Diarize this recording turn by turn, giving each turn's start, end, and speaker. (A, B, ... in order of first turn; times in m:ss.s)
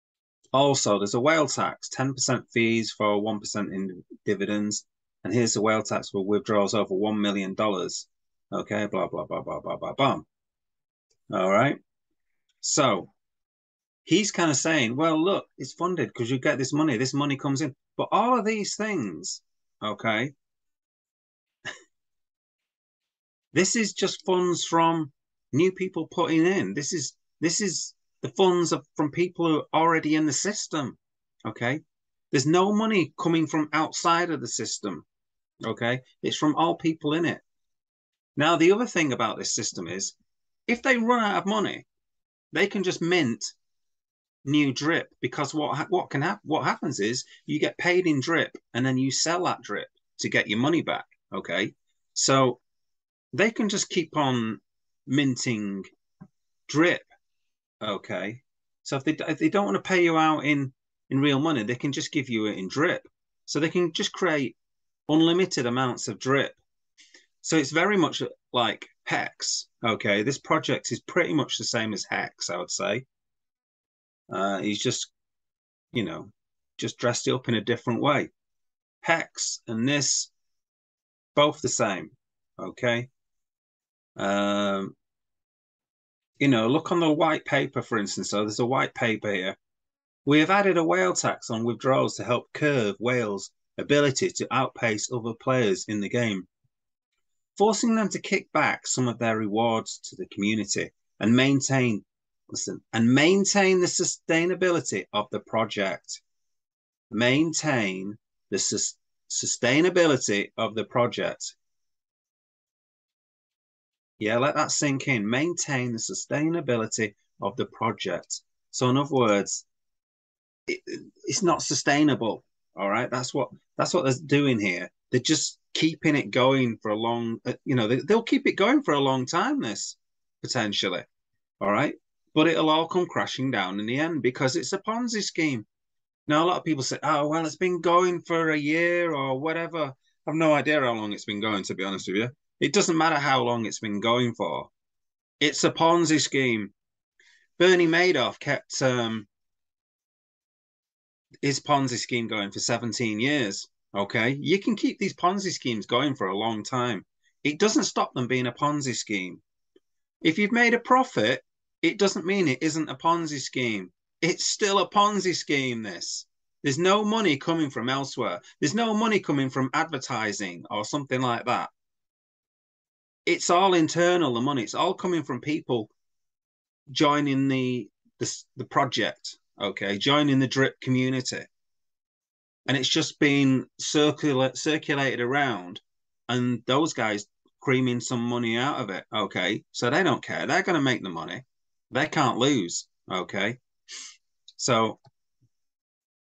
0:00.5-0:10.2 A
0:11.3-0:11.8 A
0:12.6-0:13.1 A
0:14.0-0:20.3 A
0:23.5-0:35.0 A
0:35.6-0:37.4 A
0:38.4-0:40.2 A
0:40.7-0:41.8 A
0:42.5-0:43.5 A
0:44.4-0:52.6 A
0:53.3-0:55.8 A
0:56.7-0:57.1 A
0:57.8-1:04.6 A
1:05.1-1:06.6 A
1:07.4-1:13.0 A
1:14.3-1:15.1 A
1:15.9-1:18.3 A
1:19.0-1:20.3 A
1:21.3-1:23.1 A
1:24.2-1:24.9 A
1:26.4-1:29.6 A
1:30.2-1:36.5 A
1:37.6-1:46.2 A
1:47.1-1:51.6 A
1:54.2-1:59.6 A
2:00.7-2:11.0 A
2:11.6-2:15.6 A
2:16.3-2:24.7 A
2:25.4-2:26.7 A
2:27.6-2:29.3 A
2:31.4-2:39.4 A
2:40.2-2:51.7 A
2:53.2-2:55.9 A
2:56.9-3:01.5 A
3:02.7-3:13.6 A
3:14.6-3:15.0 A